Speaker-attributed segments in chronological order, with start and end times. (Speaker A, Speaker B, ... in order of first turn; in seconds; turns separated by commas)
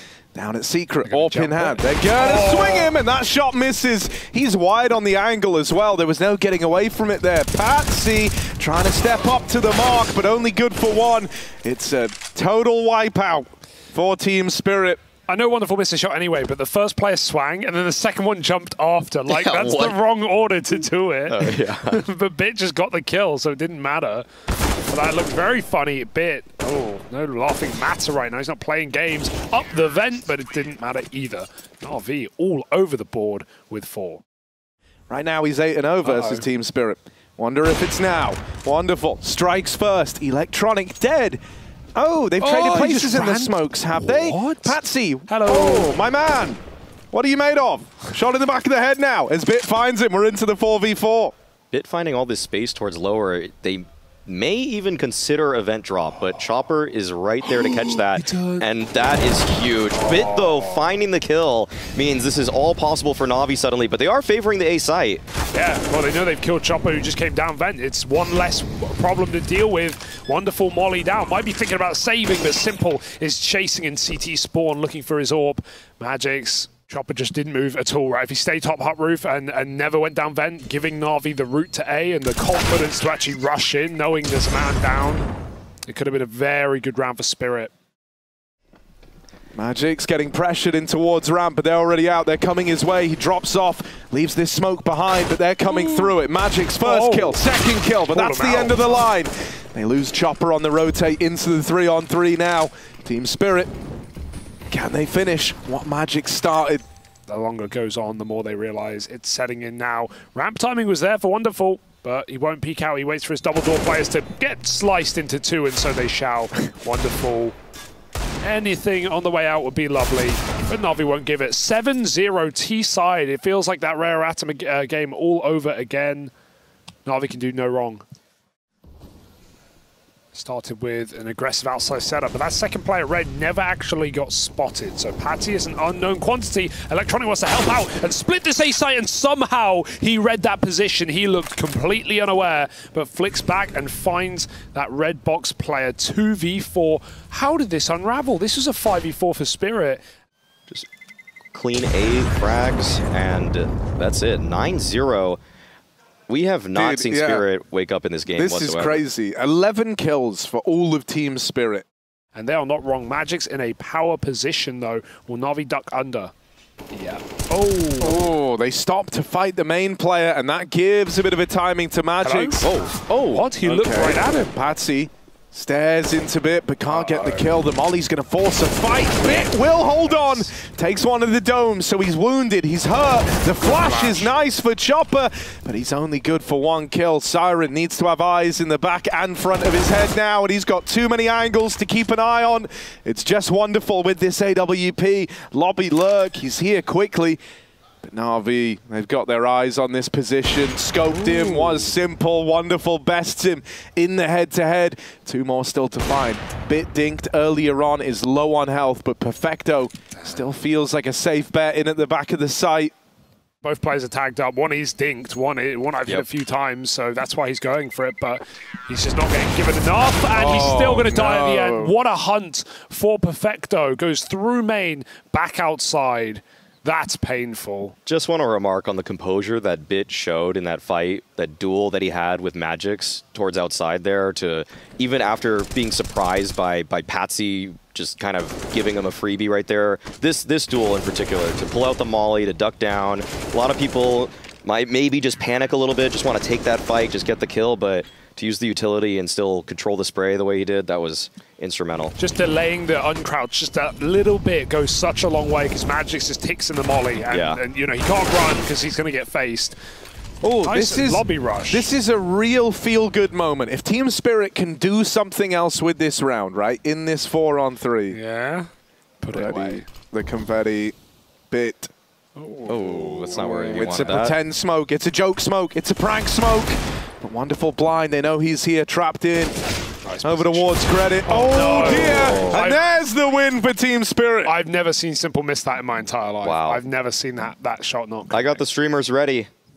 Speaker A: 0.3-15.0, Speaker B: 1.0-2.9, Speaker B: 15.3-24.3, Speaker C: 19.3-20.0, Speaker C: 21.3-22.0, Speaker B: 24.9-34.2, Speaker A: 35.1-41.4, Speaker B: 36.0-36.5, Speaker A: 42.0-51.3, Speaker B: 42.4-44.8, Speaker B: 45.3-45.9, Speaker C: 51.7-65.2, Speaker B: 58.3-58.6, Speaker B: 59.9-60.9, Speaker B: 65.5-85.3, Speaker B: 85.8-87.7, Speaker A: 89.5-103.7, Speaker B: 95.7-96.1, Speaker B: 96.8-97.5, Speaker B: 98.1-99.0, Speaker A: 104.7-106.8, Speaker B: 107.3-117.5, Speaker B: 118.4-126.3, Speaker B: 127.0-128.0, Speaker B: 130.3-150.0, Speaker C: 151.5-155.4, Speaker C: 156.3-159.0, Speaker A: 156.7-157.4, Speaker A: 158.3-161.8, Speaker B: 162.3-166.3, Speaker B: 166.9-168.3, Speaker A: 168.0-197.4, Speaker B: 172.2-174.5, Speaker B: 176.9-177.5, Speaker B: 179.3-180.5, Speaker B: 183.6-184.3, Speaker A: 198.0-212.9, Speaker B: 201.2-201.8, Speaker B: 213.6-227.9, Speaker A: 220.3-221.9, Speaker C: 228.1-252.2, Speaker B: 252.2-259.8, Speaker C: 257.3-257.6, Speaker A: 260.4-268.2, Speaker B: 260.6-261.9, Speaker B: 268.1-268.7, Speaker B: 269.2-269.9, Speaker A: 269.3-270.9, Speaker A: 271.5-271.9, Speaker B: 272.4-272.9, Speaker C: 272.7-274.4, Speaker A: 272.7-279.6, Speaker B: 280.0-280.7, Speaker A: 280.2-284.5, Speaker B: 281.2-282.8, Speaker C: 281.6-282.7, Speaker B: 284.4-288.6, Speaker C: 286.4-286.8, Speaker C: 288.3-289.5